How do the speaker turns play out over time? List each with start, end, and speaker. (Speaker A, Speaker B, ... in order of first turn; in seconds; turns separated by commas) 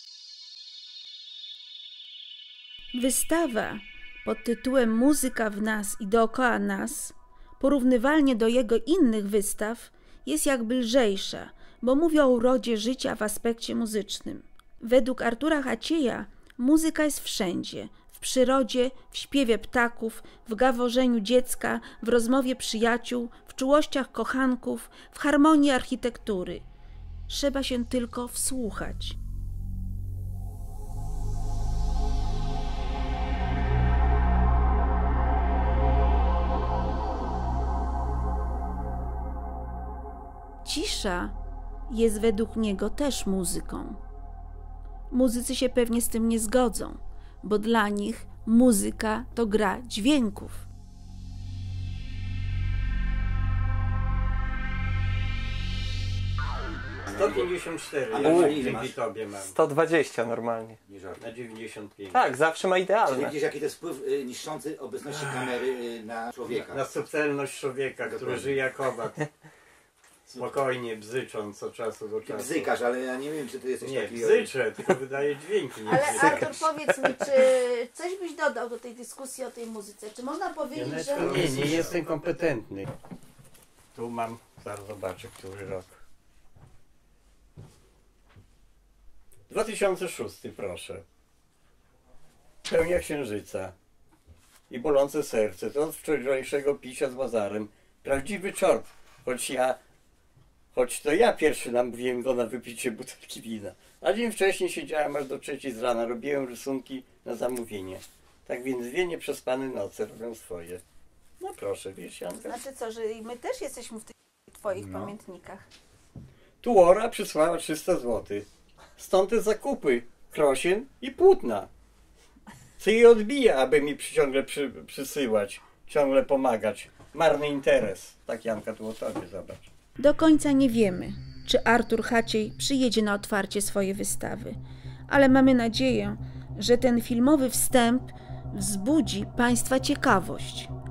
Speaker A: 2.9-26.6, Speaker A: 27.3-29.2, Speaker A: 40.6-41.4, Speaker A: 41.9-44.0, Speaker A: 45.1-50.7, Speaker B: 57.1-57.5, Speaker C: 57.1-59.5, Speaker B: 58.1-59.0, Speaker D: 59.5-60.8, Speaker B: 60.9-61.2, Speaker C: 61.2-62.2, Speaker D: 62.1-63.3, Speaker B: 63.1-66.9, Speaker C: 65.1-65.4, Speaker C: 66.5-69.3, Speaker B: 68.0-68.6, Speaker C: 70.3-72.7, Speaker B: 72.2-74.5, Speaker C: 73.8-76.6, Speaker A: 75.9-81.5, Speaker C: 80.7-82.9, Speaker B: 81.2-81.9, Speaker C: 83.9-86.0, Speaker C: 89.5-91.0, Speaker C: 92.7-93.8, Speaker C: 94.7-99.8, Speaker C: 100.7-110.8, Speaker C: 111.4-112.6, Speaker A: 112.4-115.7, Speaker C: 114.8-115.1, Speaker C: 116.6-121.7, Speaker C: 122.8-129.7, Speaker A: 130.0-134.6, Speaker A: 135.1-140.7